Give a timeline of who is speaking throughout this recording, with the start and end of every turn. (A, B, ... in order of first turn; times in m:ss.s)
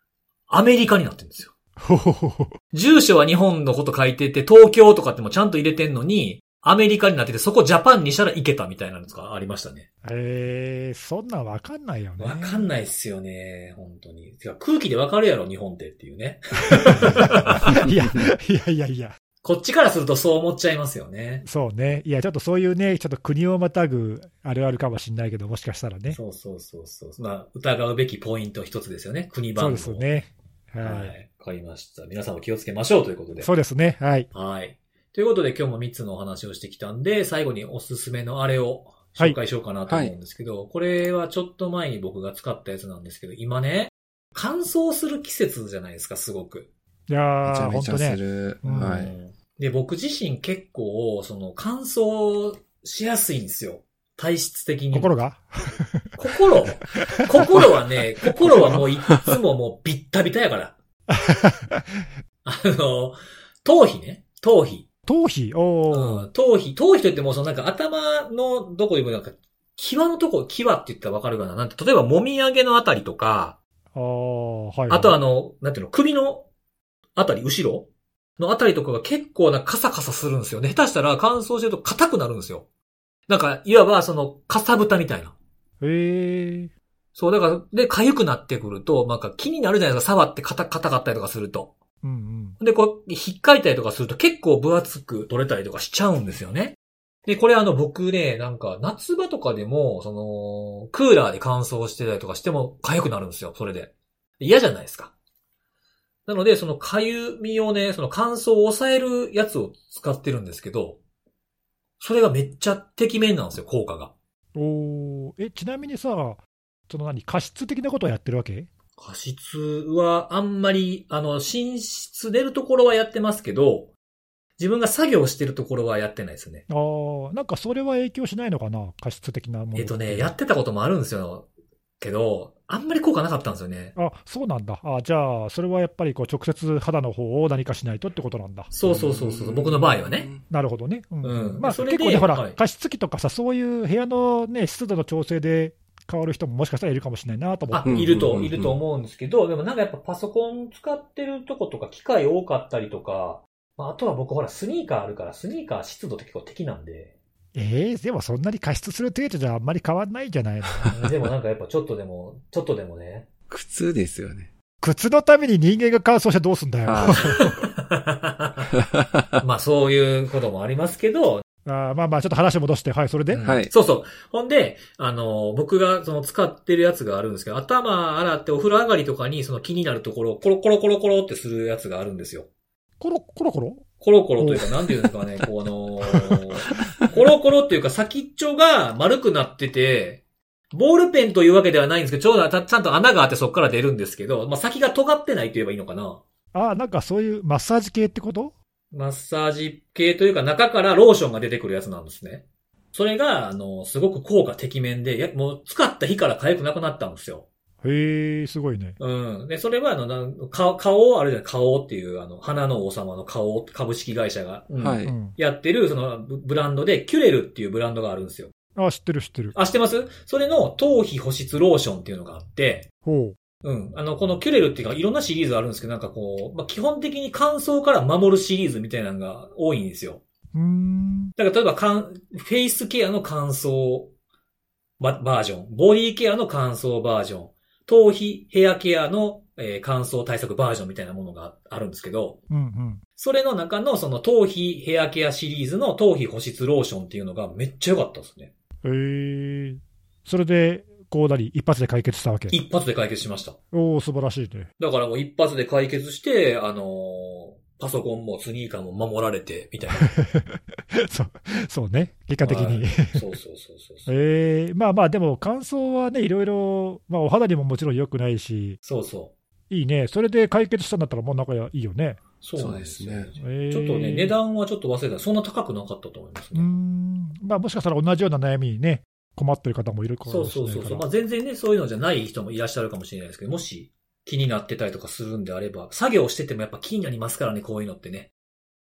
0:00.5-0:01.5 A
0:01.8-0:02.5 B
0:02.7-0:09.9 A
0:10.0-0:12.7 B
0:12.2-0:17.8 A
0:16.7-0:19.2 B
0:19.4-0:21.4 A
0:21.4-0:26.2 B
0:26.1-0:30.1 A
0:29.6-0:31.1 B
0:30.8-0:33.5 A
0:33.4-0:34.3 B
0:34.3-0:46.7 A
0:39.9-0:40.1 C
0:47.1-0:49.0 B
0:47.4-0:49.2 C
0:48.6-0:55.1 A
0:54.9-0:56.2 B
0:56.2-1:00.8 A
0:57.0-0:57.7 B
0:58.4-0:58.8 B
1:01.1-1:02.0 B
1:02.4-1:04.8 A
1:05.1-1:06.3 B
1:05.9-1:13.6 A
1:13.9-1:15.2 B
1:14.9-1:16.5 A
1:17.2-1:22.6 A
1:23.3-1:25.4 A
1:25.8-1:26.7 B
1:27.2-1:31.7 A
1:32.0-1:32.6 B
1:32.6-1:45.1 A
1:46.3-1:51.0 A
1:52.0-1:54.1 A
1:54.6-1:58.7 B
1:59.0-2:03.9 A
2:04.6-2:06.6 A
2:06.7-2:10.3 B
2:09.8-2:11.5 A
2:12.0-2:13.9 A
2:14.0-2:18.7 B
2:18.7-2:20.3 A
2:18.9-2:20.4 C
2:20.5-2:28.1 B
2:21.2-2:22.6 A
2:27.7-2:37.1 A
2:27.8-2:28.8 C
2:37.6-2:41.0 B
2:40.9-2:43.3 A
2:43.5-2:44.5 C
2:44.8-2:47.6 B
2:46.8-2:47.4 C
2:47.1-2:48.7 A
2:48.8-2:49.4 C
2:49.4-2:51.4 A
2:51.7-2:53.4 B
2:53.3-3:02.5 A
2:53.4-2:53.7 C
3:03.0-3:03.8 B
3:04.0-3:16.2 A
3:04.4-3:05.1 B
3:16.5-3:18.5 B
3:18.9-3:27.5 A
3:27.8-3:29.0 B
3:29.0-3:38.5 A
3:34.8-3:35.2 C
3:35.0-3:35.4 B
3:38.8-3:39.6 B
3:39.5-3:42.9 A
3:43.0-3:43.4 B
3:43.6-3:50.2 A
3:50.5-3:51.3 B
3:51.4-3:54.1 A
3:55.0-4:02.4 A
4:02.5-4:03.0 B
4:03.2-4:08.5 A
4:08.8-4:12.6 B
4:12.5-4:13.6 A
4:13.7-4:14.7 B
4:14.8-4:20.1 A
4:20.0-4:23.2 B
4:22.4-4:24.1 A
4:24.1-4:28.8 B
4:28.8-4:29.3 A
4:29.7-4:32.2 B
4:32.4-4:36.7 A
4:32.6-4:33.3 C
4:33.4-4:34.4 B
4:36.5-4:41.0 B
4:40.2-4:48.3 A